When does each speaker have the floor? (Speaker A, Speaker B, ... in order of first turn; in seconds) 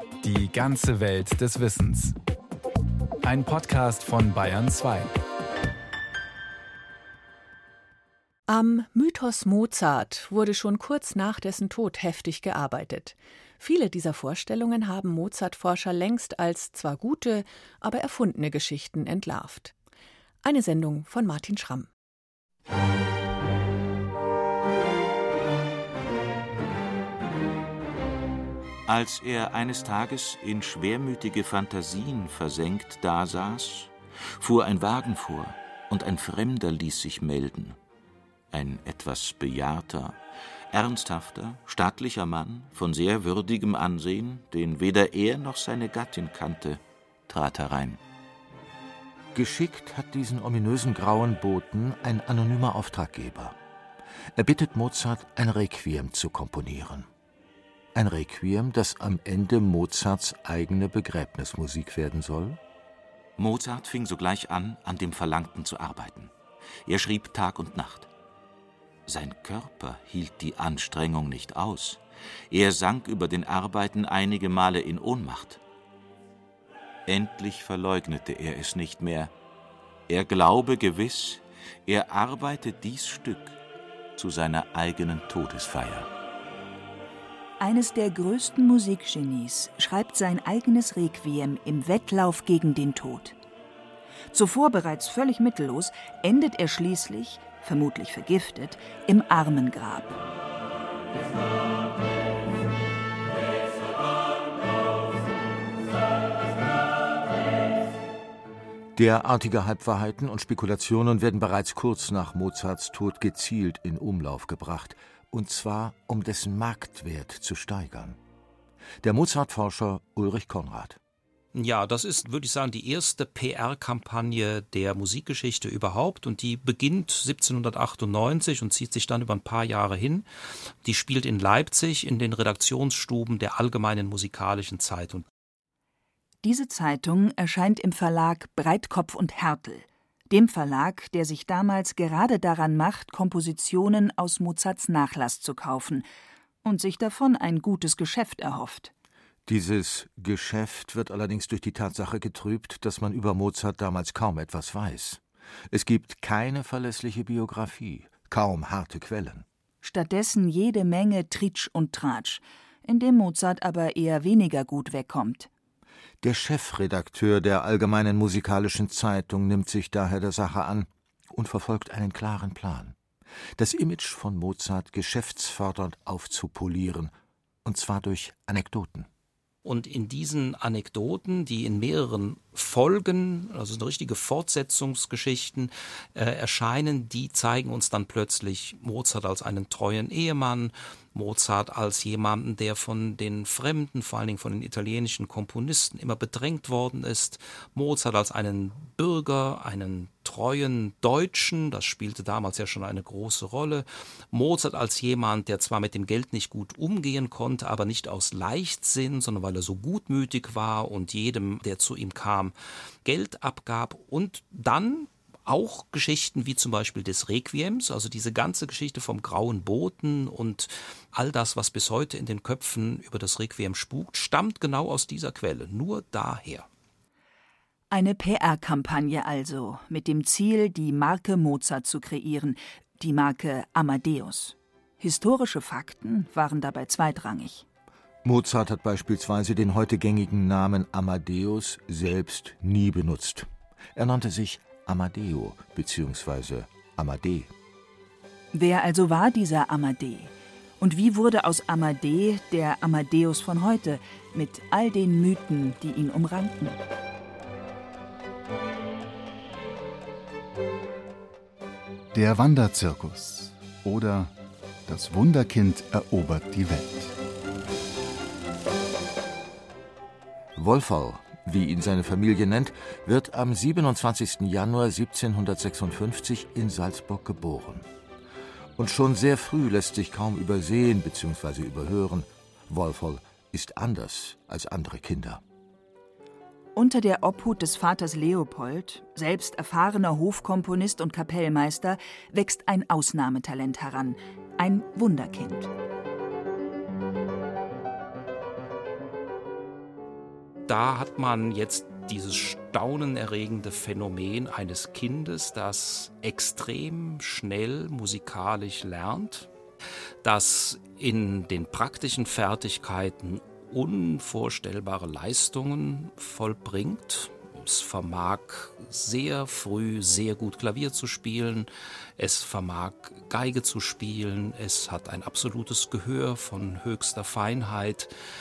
Speaker A: 0.2-2.2, 3.2-5.2
Speaker B: 8.5-19.7, 20.4-21.9
Speaker C: 28.9-37.8, 38.5-40.2, 40.7-48.0, 63.4-66.3, 66.8-68.1, 69.1-75.6, 77.1-79.3, 80.1-83.6, 84.2-86.1
Speaker D: 49.3-53.5, 54.3-57.1, 57.9-62.6, 108.9-118.2, 119.0-121.0, 149.4-159.4, 166.2-172.9, 173.6-177.1, 177.6-179.1, 238.2-247.5, 270.5-277.9, 278.8-285.4
Speaker E: 87.6-93.4, 94.3-100.2, 136.4-146.1, 146.6-148.9, 159.8-165.5, 227.9-237.7, 248.5-256.8, 286.7-295.7
Speaker F: 121.5-130.2, 130.8-135.2, 179.6-226.7, 300.7-309.5, 310.2-328.1
Speaker G: 262.1-264.3, 264.9-267.1